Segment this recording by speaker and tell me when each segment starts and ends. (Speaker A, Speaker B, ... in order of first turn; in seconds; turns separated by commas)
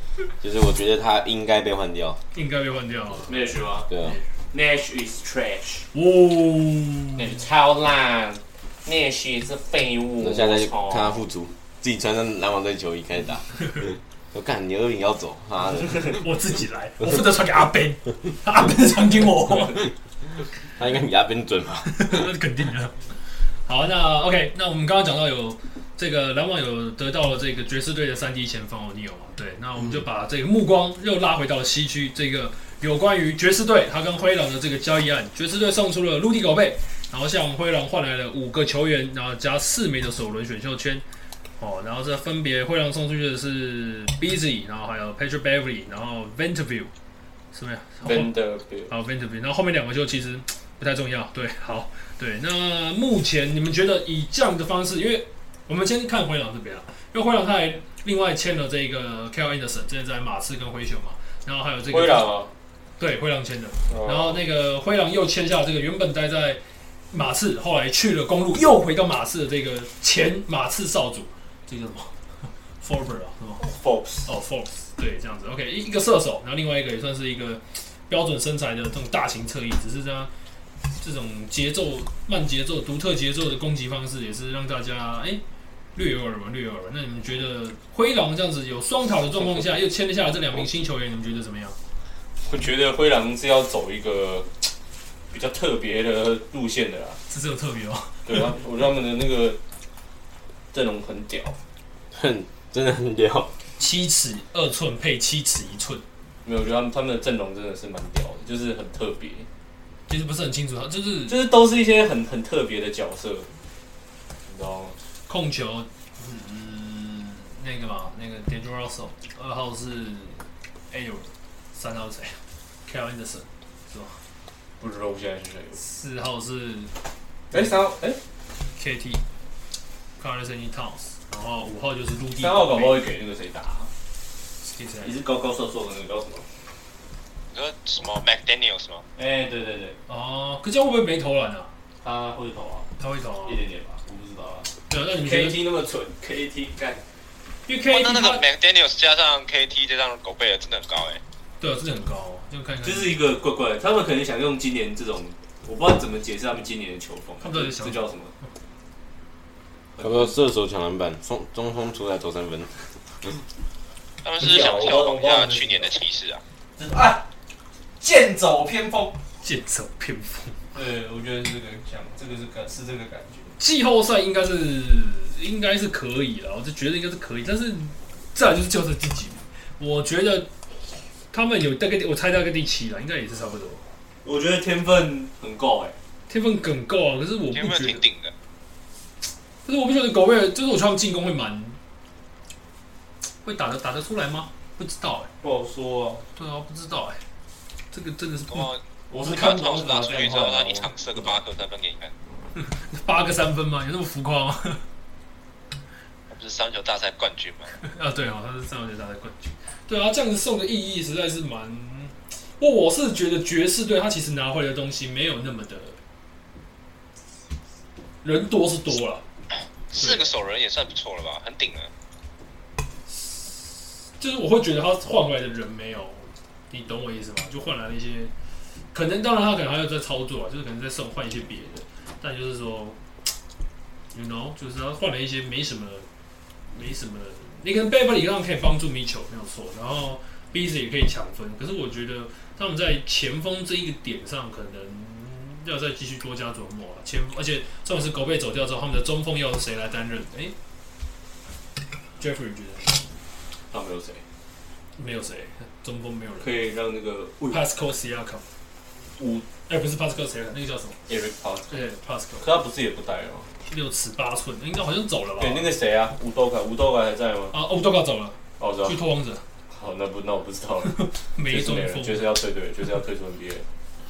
Speaker A: 0.4-2.2, Speaker B: 2.3-3.4, Speaker C: 3.3-3.9, Speaker A: 3.9-4.2, Speaker C: 4.5-5.9, Speaker B: 5.9-7.3, Speaker C: 7.2-11.2, Speaker A: 10.2-16.2, Speaker B: 16.1-19.9, Speaker A: 20.8-22.2, Speaker B: 21.9-23.0, Speaker B: 23.6-41.0, Speaker B: 41.6-46.9, Speaker B: 47.5-48.4, Speaker C: 48.0-48.9, Speaker B: 48.9-62.3, Speaker C: 61.9-62.5, Speaker B: 63.0-72.1, Speaker C: 63.9-64.4, Speaker B: 72.8-73.7, Speaker C: 73.6-74.3, Speaker B: 74.2-80.3, Speaker B: 81.0-85.4, Speaker B: 85.9-91.8, Speaker C: 92.5-94.5, Speaker C: 95.3-97.2, Speaker B: 97.3-98.5, Speaker C: 98.2-99.6, Speaker C: 100.7-101.5, Speaker A: 102.1-103.5, Speaker B: 103.8-106.0, Speaker C: 106.4-109.5, Speaker B: 110.1-111.4, Speaker C: 111.3-113.5, Speaker C: 114.5-115.0, Speaker B: 115.3-124.2, Speaker C: 124.8-125.8, Speaker B: 125.8-126.9, Speaker B: 127.5-127.8, Speaker C: 127.5-128.2, Speaker B: 128.8-129.2, Speaker B: 130.2-133.0, Speaker C: 132.4-133.9, Speaker B: 134.6-135.1, Speaker C: 135.0-136.4, Speaker D: 137.5-139.0, Speaker C: 139.2-140.0, Speaker B: 140.1-141.7, Speaker C: 142.0-142.9, Speaker B: 143.0-143.6, Speaker C: 143.4-144.7, Speaker B: 144.9-145.6, Speaker C: 145.2-147.0, Speaker B: 147.7-148.4, Speaker D: 147.9-151.2, Speaker B: 151.6-153.2, Speaker C: 152.8-158.3, Speaker B: 157.4-158.0, Speaker C: 159.9-160.3, Speaker A: 160.0-162.7, Speaker D: 164.2-166.4, Speaker C: 164.4-165.9, Speaker C: 166.8-167.2, Speaker C: 168.0-169.1, Speaker B: 169.4-170.6, Speaker C: 170.7-173.5, Speaker B: 173.6-180.5, Speaker B: 181.3-183.8, Speaker C: 184.2-185.9, Speaker B: 186.3-188.0, Speaker D: 187.5-188.3, Speaker B: 189.6-191.8, Speaker B: 193.4-195.3, Speaker C: 195.4-196.2, Speaker B: 196.3-197.2, Speaker B: 197.9-198.7, Speaker D: 198.5-202.1, Speaker C: 199.1-201.4, Speaker B: 202.6-204.8, Speaker D: 206.3-207.7, Speaker B: 207.8-216.0, Speaker B: 218.2-219.2, Speaker D: 219.9-221.9, Speaker B: 219.9-220.3, Speaker B: 223.1-228.3, Speaker B: 228.9-233.0, Speaker B: 234.1-236.1, Speaker B: 236.7-250.5, Speaker B: 252.2-253.0, Speaker C: 253.7-254.2, Speaker B: 255.0-256.6, Speaker C: 256.4-257.6, Speaker B: 257.5-258.4, Speaker C: 259.2-259.4, Speaker B: 259.7-261.0, Speaker C: 261.1-261.8, Speaker B: 261.7-262.5, Speaker C: 262.4-263.5, Speaker B: 263.7-265.7, Speaker C: 265.4-267.5, Speaker B: 267.5-269.4, Speaker C: 268.6-269.0, Speaker C: 269.7-273.6, Speaker B: 270.9-272.3